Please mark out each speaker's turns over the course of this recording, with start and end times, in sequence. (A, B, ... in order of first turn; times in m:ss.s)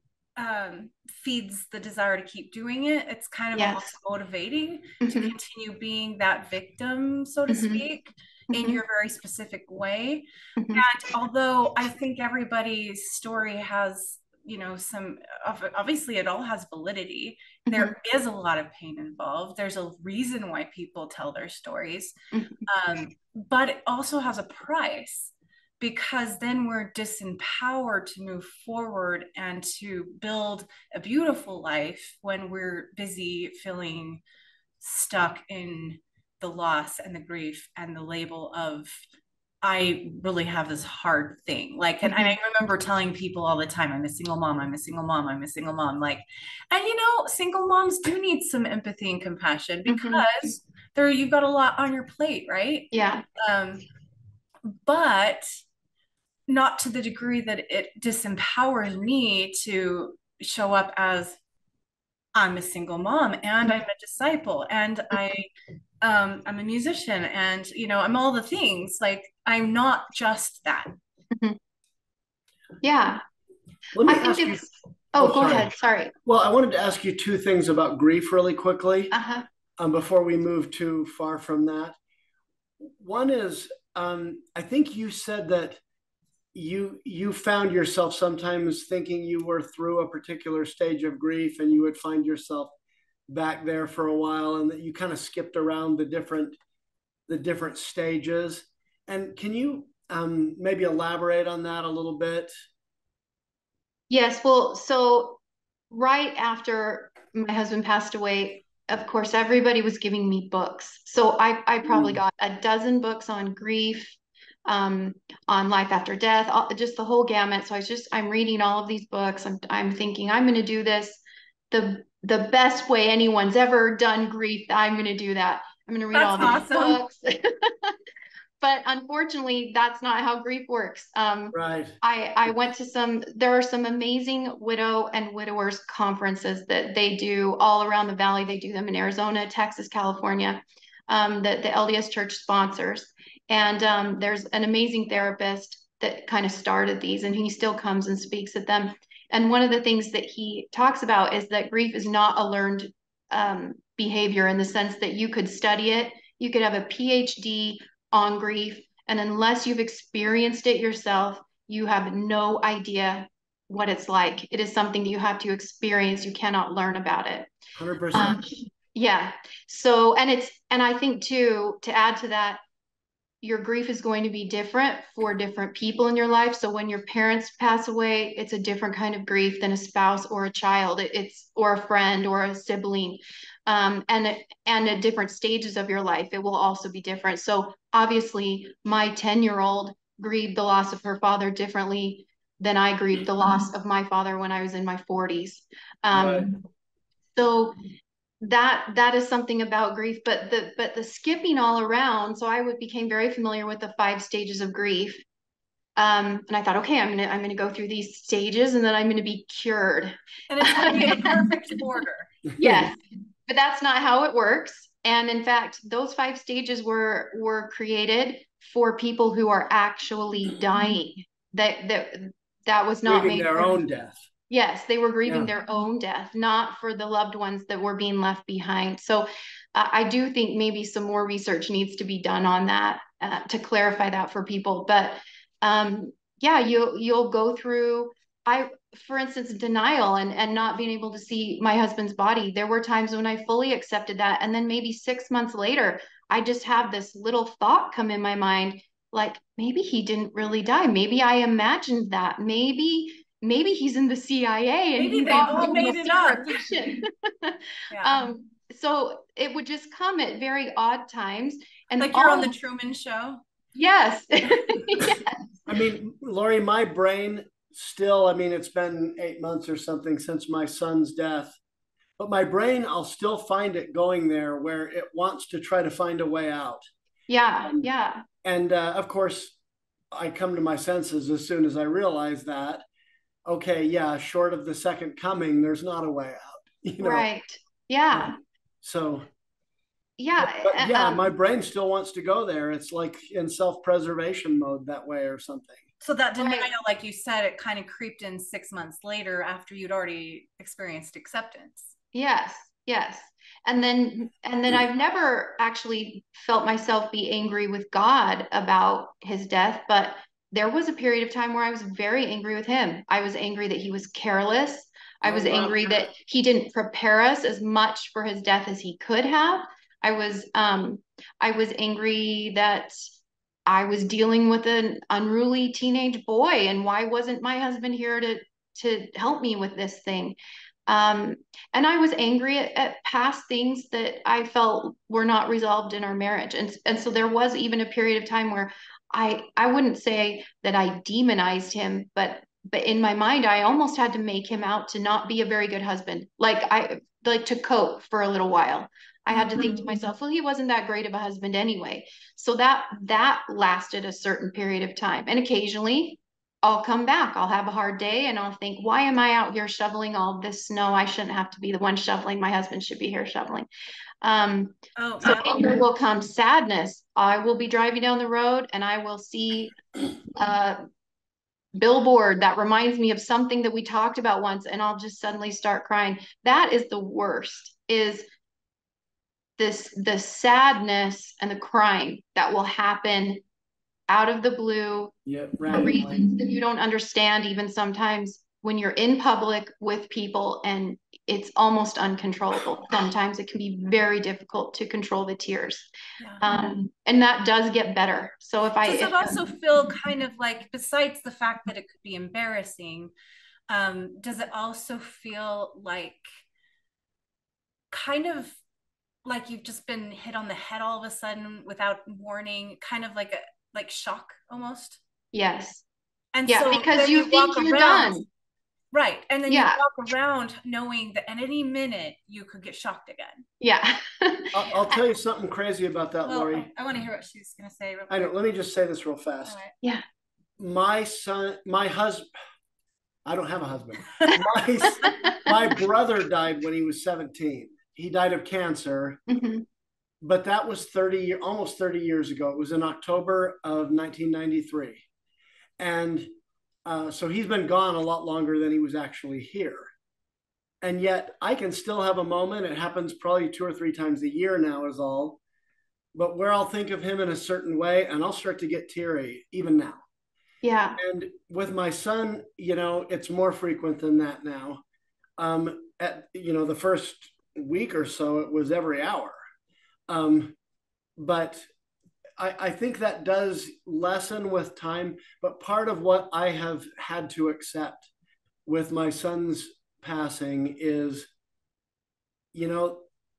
0:00.4-0:22.1 A
0:03.5-0:03.9 B
0:05.0-0:05.3 B
0:07.5-0:07.8 B
0:08.5-0:08.8 B
0:10.6-0:10.8 B
0:17.7-0:17.9 B
0:22.3-0:22.6 B
0:22.7-0:34.2 A
0:34.8-0:39.0 A
0:39.6-0:53.8 A
0:42.0-0:42.4 B
0:49.9-0:50.2 B
0:52.9-0:53.2 B
0:54.6-0:55.5 A
0:56.5-1:01.4 A
1:02.3-1:05.5 A
1:06.0-1:10.9 A
1:11.3-1:11.6 B
1:12.8-1:13.2 B
1:14.0-1:15.7 C
1:14.0-1:16.1 B
1:16.2-1:19.1 C
1:19.1-1:19.4 B
1:19.8-1:22.0 C
1:22.8-1:25.8 C
1:26.5-1:32.7 C
1:33.3-1:36.6 C
1:37.3-1:42.5 C
1:44.1-1:45.4 B
1:45.9-2:07.9 B
1:51.9-1:52.2 C
2:06.1-2:07.0 A
2:08.6-2:47.5 B
2:11.5-2:12.0 C
2:47.8-2:48.4 C
2:48.1-2:52.6 B
2:53.4-3:16.5 B
3:16.1-3:16.4 C
3:17.3-3:17.7 B
3:18.4-3:25.2 B
3:26.0-3:31.7 B
3:30.5-3:32.4 A
3:32.6-3:43.8 B
3:32.6-3:32.9 C
3:43.0-3:44.2 C
3:44.5-4:22.5 B
4:15.0-4:16.7 A
4:17.9-4:18.3 A
4:22.0-4:23.4 A
4:23.7-4:25.3 B
4:25.7-4:31.6 C
4:32.2-4:36.8 C
4:37.3-4:38.2 B
4:38.4-4:39.6 C
4:40.1-4:42.8 C
4:43.4-4:47.3 C
4:47.0-4:48.3 B
4:48.1-4:49.2 C
4:50.2-4:51.3 B
4:50.4-4:55.9 C
4:56.0-5:01.9 A
4:56.4-4:56.7 B
5:02.1-5:23.0 B
5:15.2-5:15.9 C
5:23.6-5:30.4 B
5:30.9-6:03.7 B
5:49.3-5:49.8 A
6:04.2-6:09.7 B
6:05.0-6:05.8 A
6:10.3-6:10.8 B
6:11.7-6:18.2 B
6:19.6-6:23.4 B
6:24.1-6:25.1 B
6:25.2-6:26.2 C
6:25.7-6:35.9 B
6:36.4-6:39.4 B
6:38.8-6:43.1 A
6:43.7-6:46.2 A
6:47.9-6:48.6 A
6:49.2-6:55.0 A
6:55.3-6:55.8 B
6:56.3-6:58.2 A
6:56.4-6:58.2 B
6:58.9-7:03.4 A
6:59.5-6:59.8 B
7:03.6-7:04.5 B
7:04.5-7:06.7 C
7:04.7-7:05.0 A
7:06.2-7:08.1 A
7:08.1-7:09.6 C
7:09.4-7:09.8 A
7:10.6-7:12.3 C
7:13.2-7:19.2 C
7:15.0-7:15.5 B
7:19.3-7:19.6 B
7:20.2-7:25.0 C
7:25.8-7:26.3 C
7:26.8-7:29.9 C
7:30.8-7:35.4 C
7:36.1-7:40.0 C
7:40.6-7:41.0 B
7:41.0-7:44.8 C
7:45.4-7:49.3 C
7:50.1-7:50.5 C
7:51.2-7:51.7 C
7:52.4-7:58.1 C
7:58.6-8:01.3 C
8:02.5-8:03.0 C